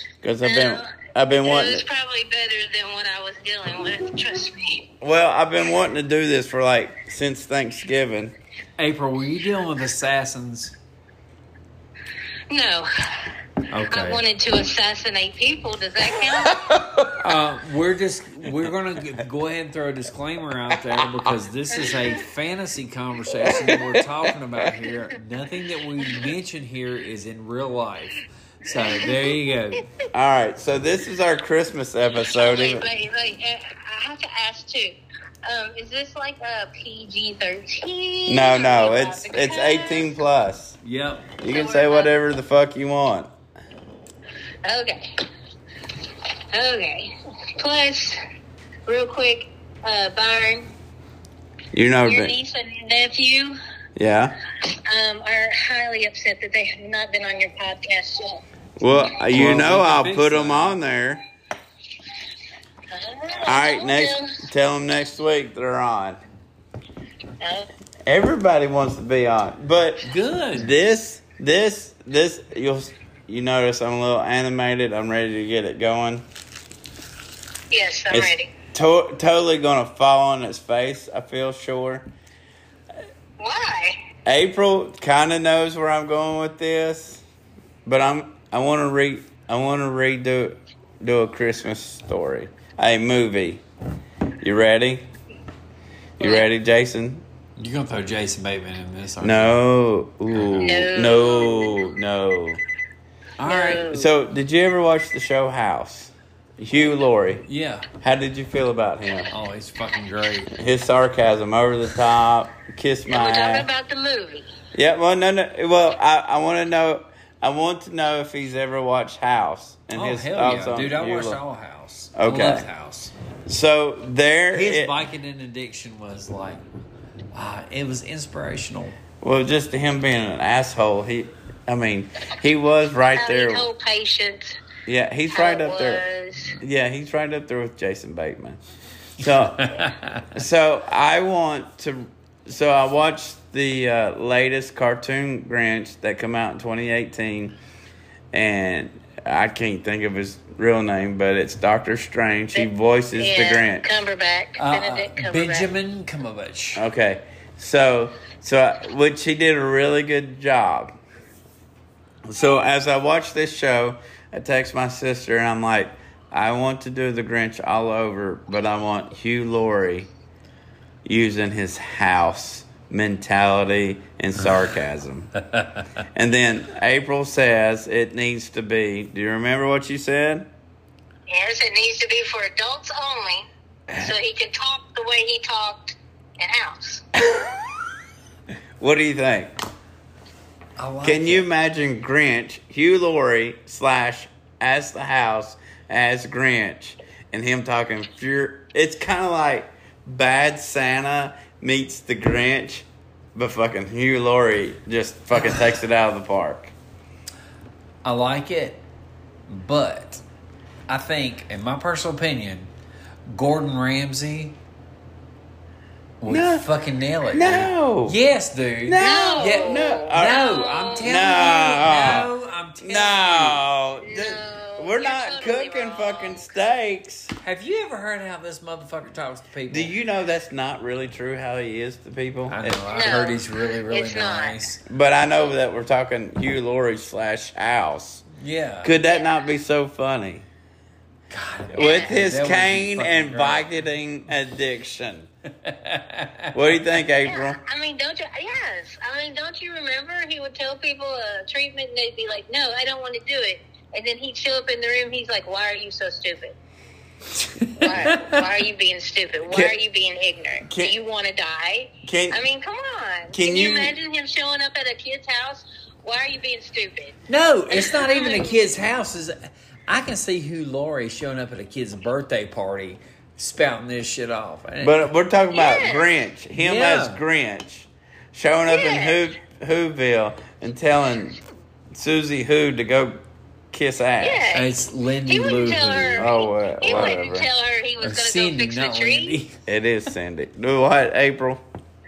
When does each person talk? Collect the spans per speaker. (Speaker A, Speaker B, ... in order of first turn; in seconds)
Speaker A: 0.2-1.8, 5.0-8.3, 16.5-17.1, 23.4-23.8, 30.1-32.9, 38.3-40.8, 41.4-43.3, 51.7-52.3, 54.0-54.4, 58.8-61.2, 63.4-66.2, 68.0-76.2, 78.1-82.1, 84.2-87.2, 87.8-93.6, 94.4-95.1, 96.2-97.2, 99.2-102.6, 103.9-107.5, 108.0-109.3, 110.5-113.7, 114.7-121.4, 122.1-122.7, 123.5-124.9, 129.2-133.6, 134.8-136.0, 136.6-138.6, 139.2-147.6, 148.3-153.8, 156.8-160.9, 162.2-170.1, 171.0-175.3, 176.1-180.5, 188.8-189.5, 191.0-206.7, 216.2-216.6, 217.3-218.2, 218.8-220.4, 220.9-222.3, 222.8-227.3, 229.7-232.9, 234.8-238.2, 238.8-240.5, 241.8-245.3, 246.5-247.6, 259.5-259.8, 260.7-260.9, 262.0-262.4, 263.3-264.0, 274.8-281.4, 281.9-284.5, 286.2-287.5, 289.7-291.6
Speaker B: 0.4-4.8, 12.5-13.3, 13.9-16.7, 28.8-29.2, 32.3-40.2, 41.5-42.1, 44.6-45.0, 46.5-48.2, 48.9-50.7, 52.0-53.6, 54.7-58.4, 62.9-64.4, 67.4-67.7, 77.7-78.5, 83.4-84.0, 96.2-96.5, 100.6-101.8, 103.5-104.1, 113.1-114.5, 133.2-134.6, 135.3-136.5, 152.5-155.7, 181.3-187.1, 219.0-221.3, 224.0-226.6, 232.9-234.7, 241.7-242.1, 247.2-256.6, 257.8-267.2, 267.7-268.6, 275.5-276.1, 278.7-279.2, 284.2-284.7, 285.2-289.4
Speaker C: 8.8-10.7, 13.7-14.2, 17.2-29.9, 40.8-41.3, 58.9-60.8, 70.0-70.7, 97.6-99.6, 103.4-103.8, 107.4-107.9, 109.3-110.5, 119.9-123.1, 124.5-126.6, 127.3-129.0, 139.6-140.3, 154.6-156.8, 175.4-175.8, 190.8-191.4, 208.0-208.8, 209.5-210.2, 210.9-212.7, 213.3-214.6, 216.2-223.6, 227.4-229.9, 232.5-234.8, 238.4-238.9, 241.3-243.8, 245.6-246.5, 257.4-258.4, 267.3-275.1, 276.6-277.2, 284.5-286.3, 288.0-289.6